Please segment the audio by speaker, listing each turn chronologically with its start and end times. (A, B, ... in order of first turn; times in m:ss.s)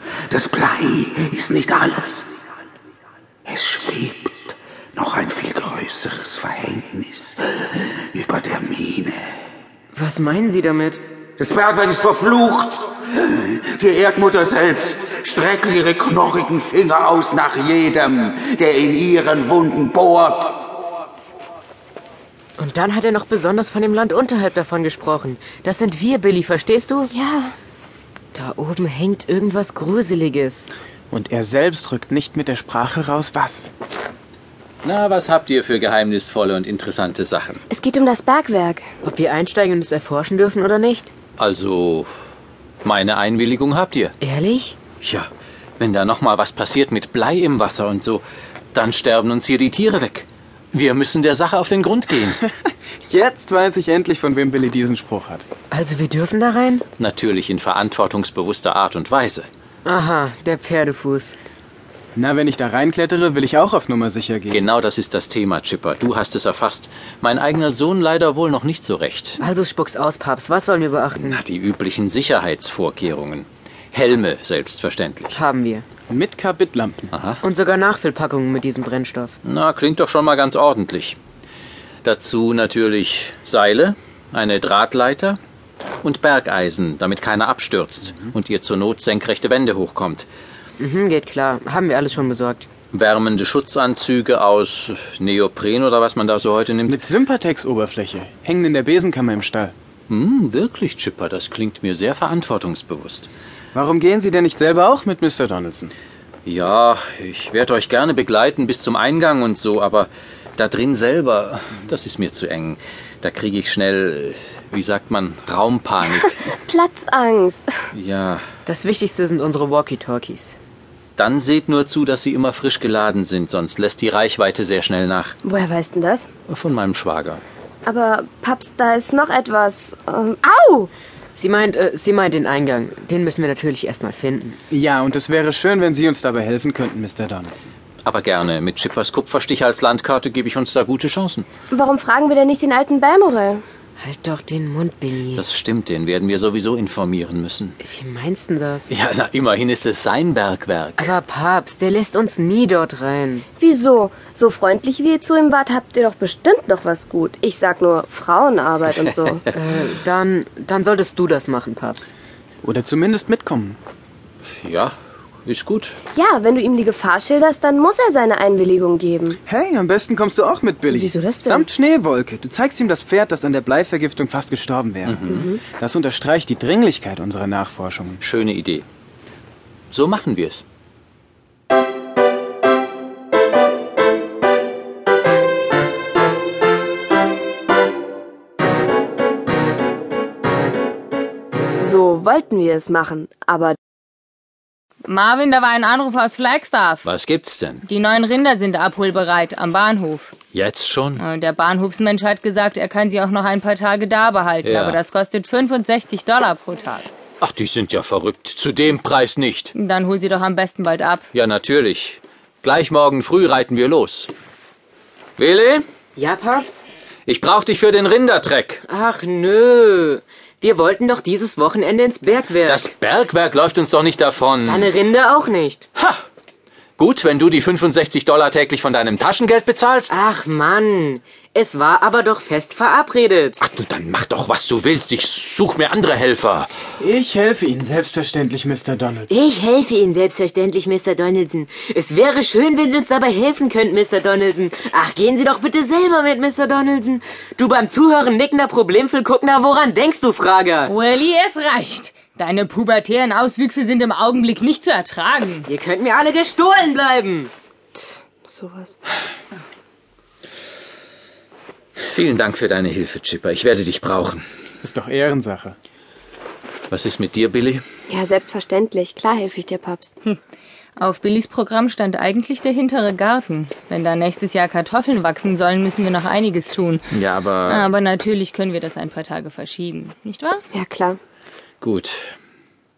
0:00.3-0:02.3 A
0:03.5-0:09.3 A
0:09.9-0:11.0 B
0:11.4-0:20.7 A
0:22.6-0:27.1 B
0:27.1-0:27.6 C
0:28.3-0:30.7 B
0:31.1-0:33.7 D
0:34.8-0:37.6 E
0:37.7-0:38.8 C
0:39.0-0:41.1 B
0:41.4-0:42.1 E
0:42.8-0:44.2 E
0:44.2-0:44.8 B
0:45.0-0:52.4 E
0:52.4-0:55.5 D
0:55.7-0:56.8 B
0:57.0-0:59.5 E
0:59.8-1:01.4 B
1:02.2-1:04.6 D
1:04.5-1:09.4 E
1:09.4-1:11.4 B
1:11.2-1:15.4 E
1:15.3-1:15.8 B
1:16.1-1:17.1 D
1:17.1-1:17.4 E
1:17.4-1:19.4 B
1:19.4-1:21.2 E
1:22.0-1:25.4 E
1:26.0-1:30.3 E
1:30.8-1:32.7 B
1:32.9-1:37.0 E
1:36.9-1:39.7 D
1:40.1-1:43.3 E
1:43.7-1:45.9 D
1:46.5-1:56.4 E
1:56.3-1:57.6 C
1:57.9-1:58.4 E
1:58.7-2:00.6 B
2:01.2-2:05.4 E
2:05.4-2:06.3 C
2:06.5-2:07.4 E
2:07.9-2:10.9 C
2:11.3-2:14.6 B
2:14.7-2:17.7 D
2:18.0-2:21.5 E
2:21.7-2:23.6 C
2:24.0-2:25.4 B
2:25.4-2:27.8 E
2:27.8-2:28.9 B
2:28.9-2:31.2 E
2:31.0-2:33.4 B
2:33.6-2:39.5 C
2:39.5-2:42.1 B
2:42.6-2:43.8 D
2:44.6-2:46.0 E
2:46.1-2:49.4 C
2:49.5-2:58.2 D
2:50.9-2:51.7 C
2:55.1-2:55.5 E
2:55.3-2:55.6 C
2:58.2-2:58.8 E
2:59.9-3:00.6 E
3:11.8-3:13.8 C
3:15.1-3:17.1 F
3:17.0-3:17.8 E
3:17.9-3:20.4 F
3:20.5-3:21.2 E
3:21.2-3:27.1 F
3:24.6-3:25.0 E
3:27.4-3:29.7 E
3:29.8-3:31.2 F
3:31.3-3:34.3 E
3:35.4-3:35.8 E
3:36.2-3:36.8 B
3:37.3-3:38.8 E
3:38.8-3:42.8 B
3:42.6-3:44.9 E
3:44.7-3:45.9 B
3:47.0-3:50.2 E
3:50.1-3:53.6 B
3:53.6-3:56.7 E
3:57.0-3:59.4 D
3:59.3-4:11.0 B
4:10.9-4:15.6 F
4:15.6-4:17.5 B
4:18.0-4:19.0 C
4:22.0-4:24.4 E
4:24.8-4:25.8 D
4:26.9-4:27.8 E
4:28.1-4:30.1 C
4:31.0-4:37.0 F
4:37.1-4:37.9 E
4:37.7-4:40.6 F
4:40.7-4:41.2 C
4:41.8-4:42.3 E